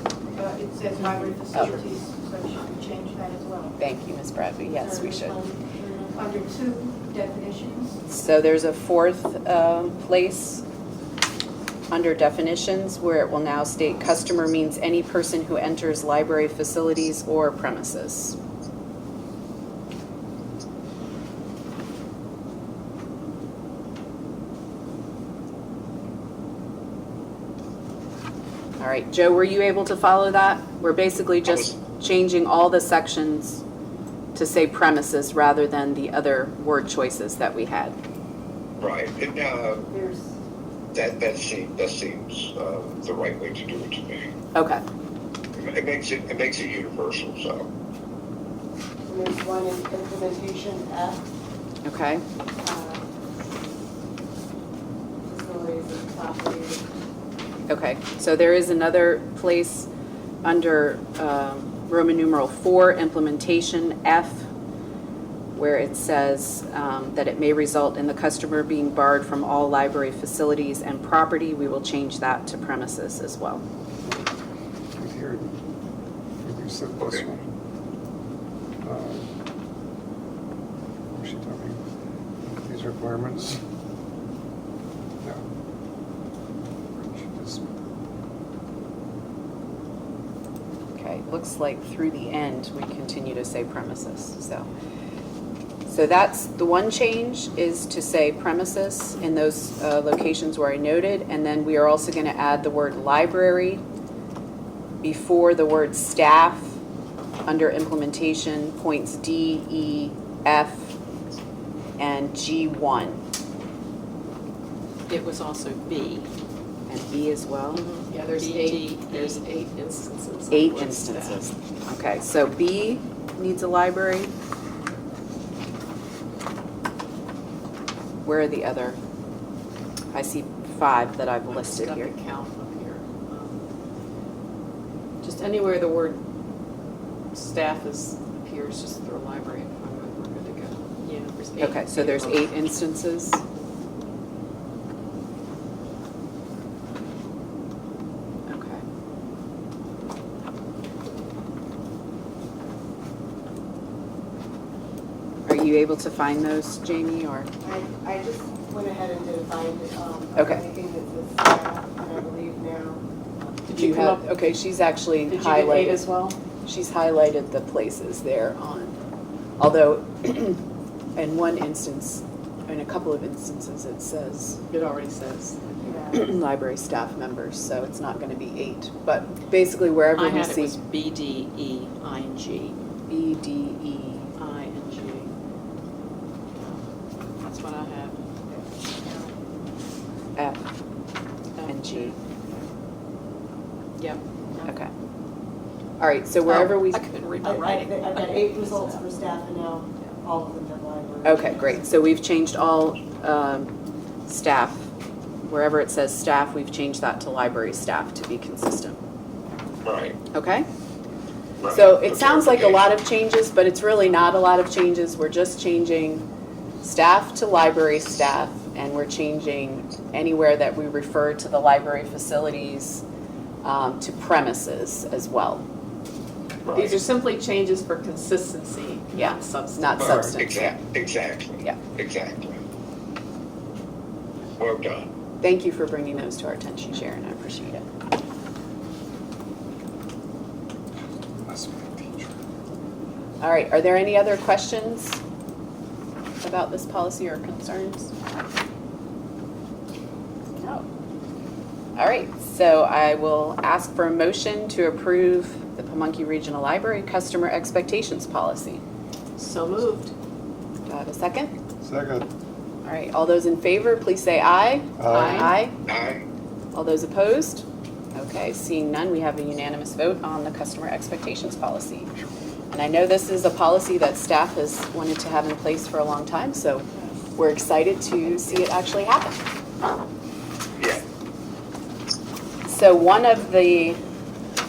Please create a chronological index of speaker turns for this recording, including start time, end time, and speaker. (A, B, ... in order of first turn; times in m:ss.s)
0:00.3-0:03.8 A
0:01.5-0:01.8 B
0:03.8-0:05.4 B
0:04.7-0:06.2 C
0:06.1-0:08.0 A
0:08.1-0:10.6 B
0:11.9-0:18.4 B
0:28.8-0:33.6 B
0:31.5-0:31.7 D
0:34.3-0:38.0 B
0:38.8-0:39.9 D
0:39.9-0:40.3 C
0:40.9-0:44.3 D
0:44.5-0:44.8 B
0:45.5-0:47.7 D
0:49.0-0:51.2 C
0:51.8-0:52.2 B
0:52.6-0:53.1 C
0:55.2-0:56.9 C
0:57.7-0:59.9 B
1:00.4-1:04.5 B
1:05.5-1:13.6 B
1:14.9-1:15.6 E
1:16.4-1:17.5 E
1:18.8-1:19.3 E
1:21.1-1:21.8 E
1:22.4-1:23.6 E
1:25.2-1:25.5 E
1:26.9-1:27.6 E
1:30.9-1:34.7 B
1:35.9-1:43.8 B
1:45.0-1:46.8 B
1:47.4-1:50.9 B
1:52.0-1:53.2 B
1:55.1-1:56.3 F
1:56.9-1:59.4 B
1:57.7-2:01.4 F
2:00.5-2:04.3 B
2:08.2-2:09.0 B
2:10.1-2:12.1 B
2:11.5-2:13.6 F
2:15.2-2:16.2 F
2:17.3-2:22.5 F
2:21.6-2:23.4 B
2:28.5-2:28.8 B
2:35.4-2:37.5 B
2:37.6-2:43.0 C
2:43.7-2:44.2 F
2:43.7-2:46.0 B
2:45.3-2:46.4 F
2:46.7-2:49.0 B
2:49.6-2:50.6 B
2:51.2-2:54.6 B
2:54.7-2:55.7 F
2:55.8-2:56.2 C
2:56.1-3:00.8 B
3:00.1-3:02.8 F
3:03.1-3:04.3 B
3:04.4-3:05.3 F
3:06.6-3:06.8 F
3:07.4-3:08.2 F
3:08.5-3:09.3 C
3:10.4-3:10.7 B
3:11.6-3:12.2 F
3:11.6-3:12.2 B
3:14.6-3:14.9 B
3:16.0-3:17.0 B
3:16.4-3:19.0 F
3:17.4-3:21.8 C
3:21.2-3:23.7 B
3:24.3-3:24.9 B
3:25.4-3:29.0 B
3:29.8-3:30.2 D
3:30.3-3:30.7 B
3:31.6-3:32.9 D
3:31.7-3:36.2 B
3:36.8-3:43.0 B
3:43.6-3:45.6 B
3:46.7-3:47.0 D
3:46.7-3:50.1 F
3:49.1-3:50.8 B
3:50.0-3:52.6 D
3:50.1-3:50.3 E
3:54.6-3:55.1 D
3:55.4-3:57.8 B
4:01.3-4:02.3 E
4:03.4-4:05.2 B
4:06.4-4:08.2 B
4:10.6-4:10.8 B
4:12.0-4:18.8 B
4:19.4-4:20.1 F
4:20.9-4:21.5 B
4:21.8-4:22.3 E
4:22.8-4:25.8 B
4:25.0-4:25.5 E
4:25.1-4:25.6 F
4:25.9-4:26.2 D
4:26.7-4:32.1 B
4:32.7-4:36.8 B
4:37.4-4:39.4 B
4:42.6-4:44.0 B